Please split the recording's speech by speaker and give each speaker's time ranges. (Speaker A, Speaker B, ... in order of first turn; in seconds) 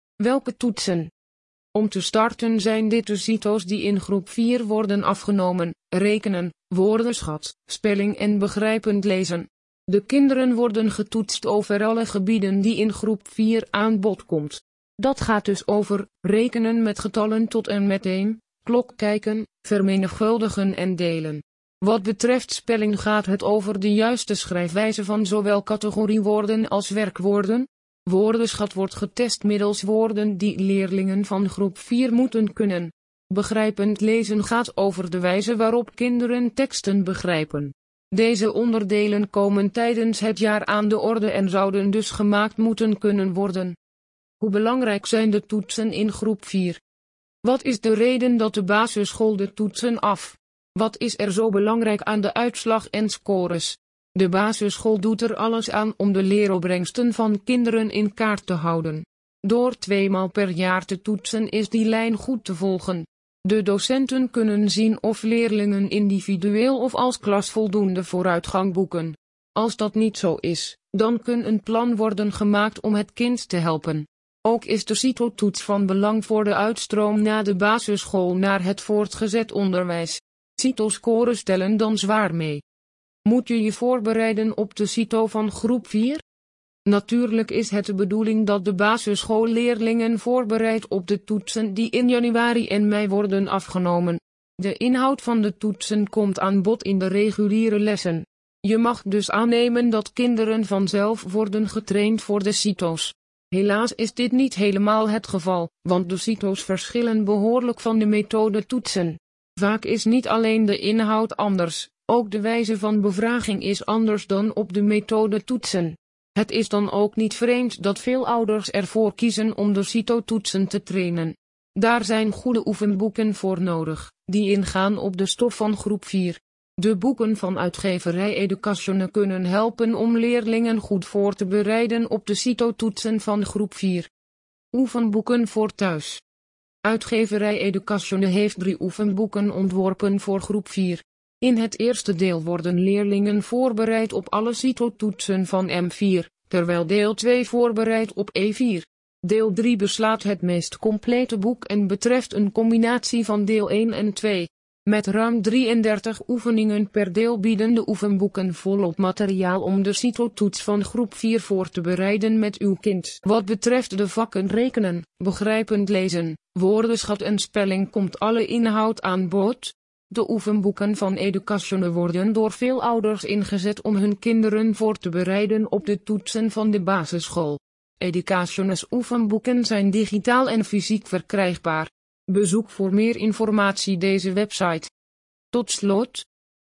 Speaker A: 0.2-1.1, 1.7-43.8, 44.4-46.8, 47.4-82.6, 83.2-86.2, 86.8-134.1, 134.7-136.2, 136.8-184.9, 185.5-186.3